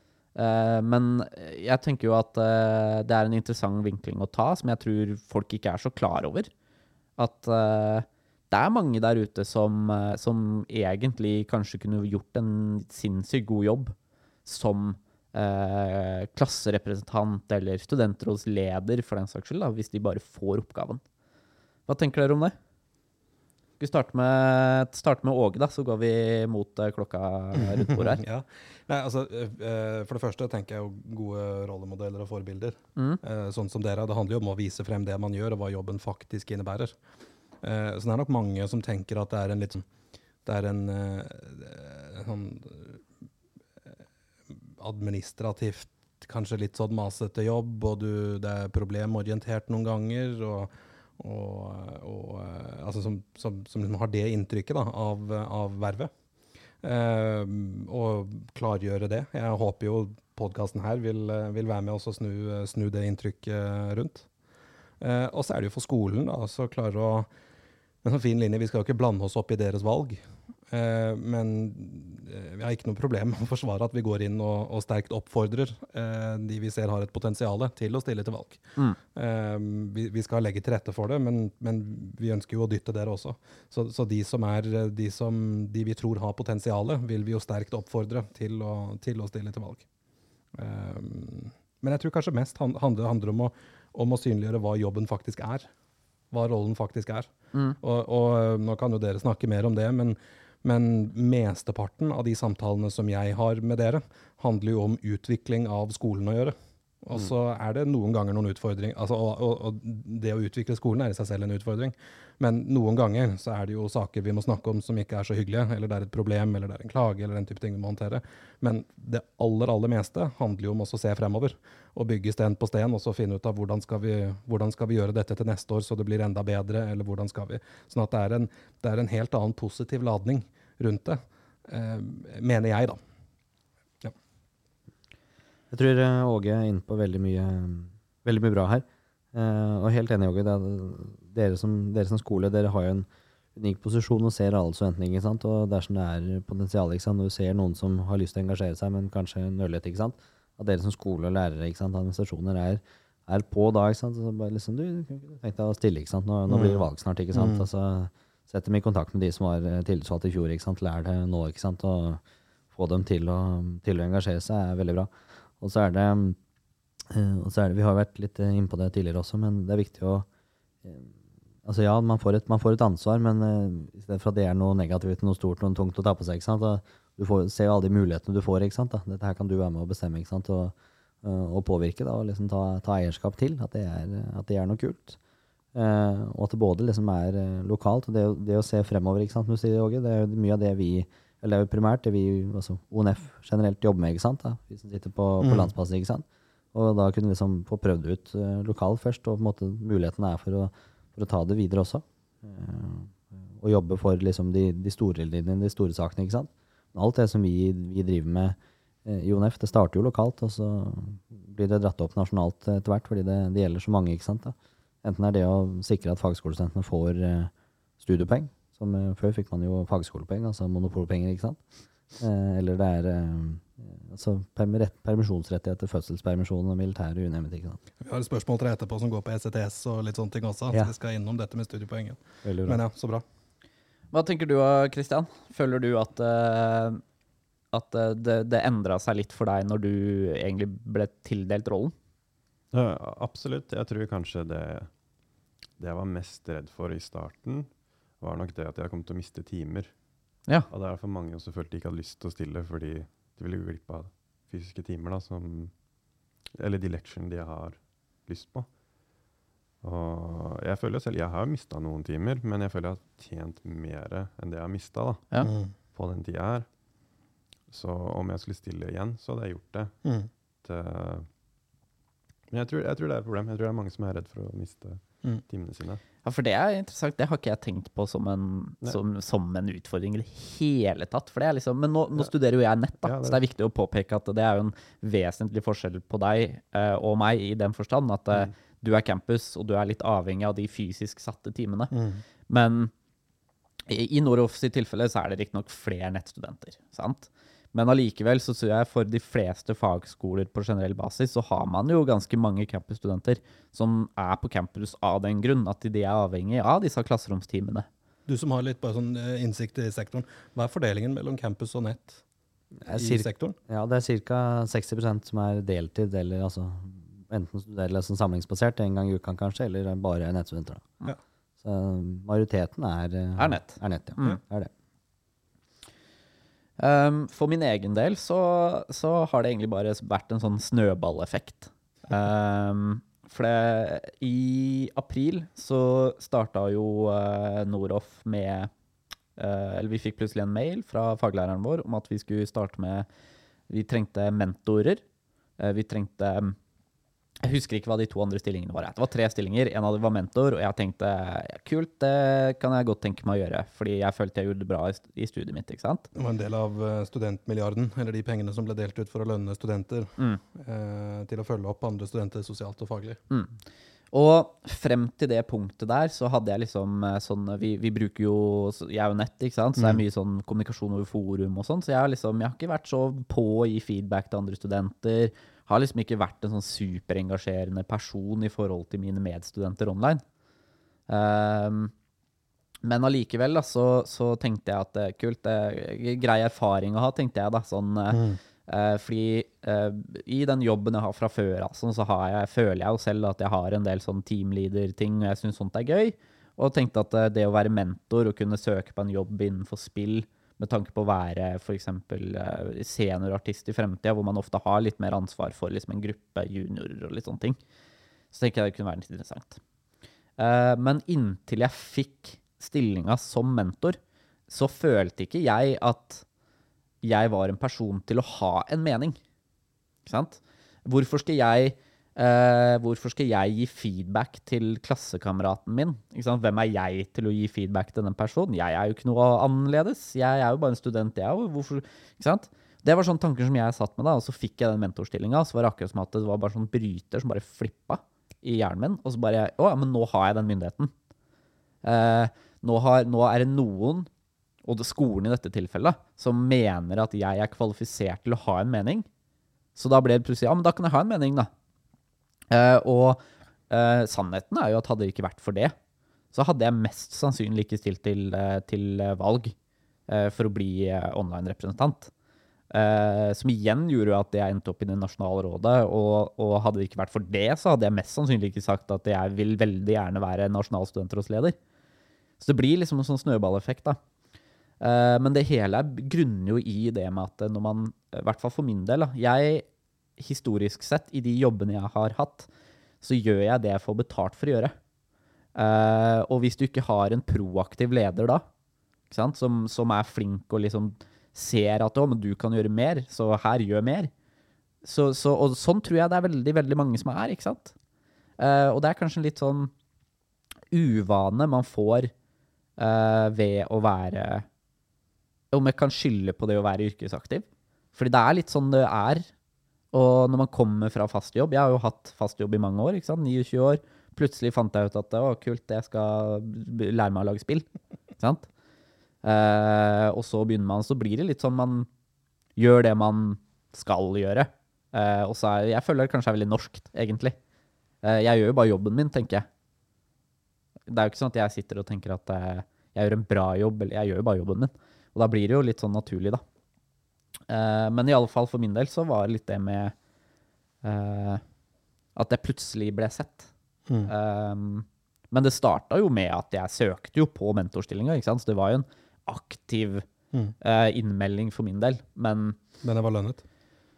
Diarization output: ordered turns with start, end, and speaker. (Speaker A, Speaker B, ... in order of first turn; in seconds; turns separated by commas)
Speaker A: 0.3-6.5, Speaker A: 7.2-21.0, Speaker A: 21.9-22.5, Speaker A: 23.8-28.2, Speaker B: 27.6-36.9, Speaker B: 37.6-39.8, Speaker B: 40.4-43.0, Speaker B: 44.8-56.1, Speaker B: 56.8-64.3, Speaker B: 65.0-67.3, Speaker B: 68.0-78.6, Speaker B: 79.1-89.8, Speaker B: 90.5-95.7, Speaker B: 96.3-133.0, Speaker C: 135.7-162.2, Speaker B: 156.5-156.8, Speaker B: 157.3-157.6, Speaker C: 162.7-166.4, Speaker C: 167.1-170.3, Speaker C: 170.8-171.1, Speaker C: 171.6-185.2, Speaker C: 185.7-221.6, Speaker B: 195.4-195.7, Speaker C: 222.2-227.8, Speaker B: 228.0-233.2, Speaker C: 232.4-232.8, Speaker A: 234.1-237.0, Speaker A: 237.7-241.9, Speaker D: 242.7-244.9, Speaker D: 245.8-249.9, Speaker D: 250.7-255.7, Speaker D: 256.5-258.7, Speaker D: 259.8-266.7, Speaker B: 265.4-265.7, Speaker D: 267.7-271.3, Speaker B: 270.0-270.3, Speaker D: 272.5-276.0, Speaker A: 276.2-291.9, Speaker D: 283.0-283.4, Speaker B: 291.9-292.2, Speaker A: 292.5-292.9, Speaker A: 293.9-307.9, Speaker B: 308.2-312.2, Speaker C: 312.8-320.9, Speaker B: 312.9-313.6, Speaker C: 321.6-324.7, Speaker A: 323.4-324.4, Speaker A: 326.8-338.7, Speaker A: 339.4-343.1, Speaker A: 343.7-345.0, Speaker A: 345.6-346.6, Speaker A: 347.4-356.1, Speaker B: 356.1-363.2, Speaker A: 364.1-380.2, Speaker A: 381.1-381.9, Speaker A: 382.8-407.6, Speaker B: 388.1-388.4, Speaker A: 408.3-409.6, Speaker A: 410.4-416.2, Speaker A: 417.0-419.2, Speaker A: 420.1-440.9, Speaker A: 441.8-444.1, Speaker A: 444.6-449.1, Speaker A: 449.8-451.5, Speaker A: 452.5-455.7, Speaker A: 456.3-459.5, Speaker A: 460.1-462.1, Speaker A: 462.7-471.6, Speaker A: 472.4-474.0, Speaker A: 474.8-479.6, Speaker A: 480.2-482.5, Speaker A: 483.0-484.8, Speaker A: 485.5-488.4, Speaker A: 489.1-494.1, Speaker A: 494.8-497.7, Speaker A: 498.4-499.7, Speaker A: 500.7-502.1, Speaker A: 502.8-504.4, Speaker A: 505.5-509.3, Speaker A: 509.9-517.7, Speaker A: 518.2-518.5, Speaker A: 519.2-521.9, Speaker A: 522.6-527.4, Speaker A: 528.0-529.5, Speaker A: 530.9-536.4, Speaker A: 537.5-539.9, Speaker A: 540.8-541.4, Speaker A: 542.1-543.5, Speaker B: 543.9-544.1, Speaker A: 544.1-550.1, Speaker A: 550.6-552.6, Speaker B: 552.8-553.4